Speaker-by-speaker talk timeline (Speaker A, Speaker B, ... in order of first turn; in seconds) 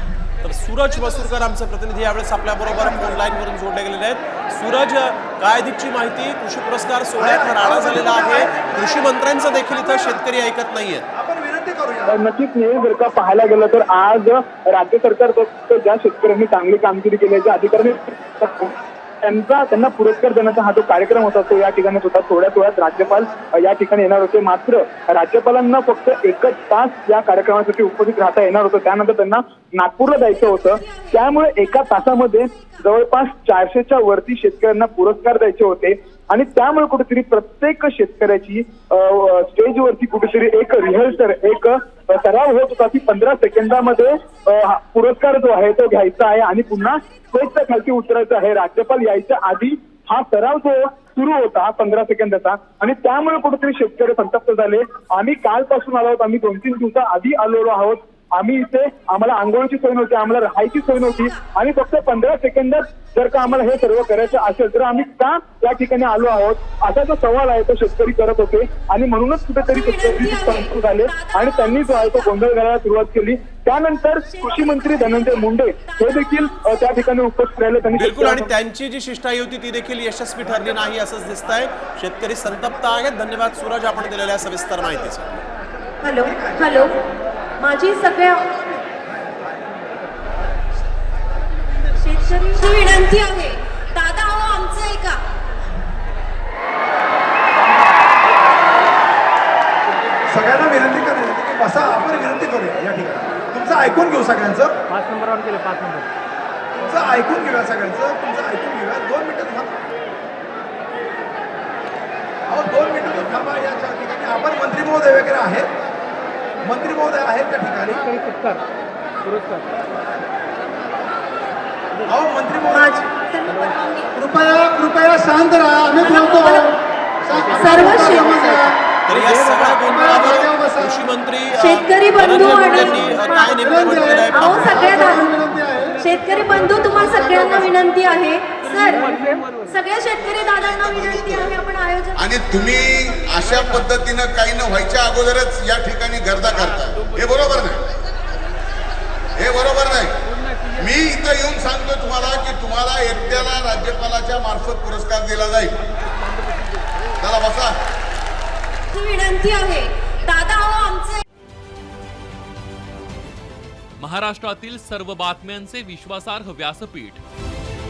Speaker A: 0.4-11.1, 77.9-85.2, 127.3-128.3, 129.1-135.0
Speaker B: 2.8-3.1, 7.2-10.1, 11.1-12.2, 86.2-86.8, 88.9-89.8, 100.3-104.8, 106.8-109.8, 112.5-115.7, 116.6-118.3, 122.0-123.0, 124.5-125.8
Speaker C: 12.1-78.5
Speaker D: 86.0-86.9, 87.6-88.5, 92.0-93.4, 94.4-95.0, 122.7-124.3, 125.9-126.8, 127.4-128.7, 131.6-142.4
Speaker E: 140.5-141.6, 142.2-147.8, 149.3-150.2, 150.7-155.8, 157.2-157.8
Speaker F: 164.0-167.2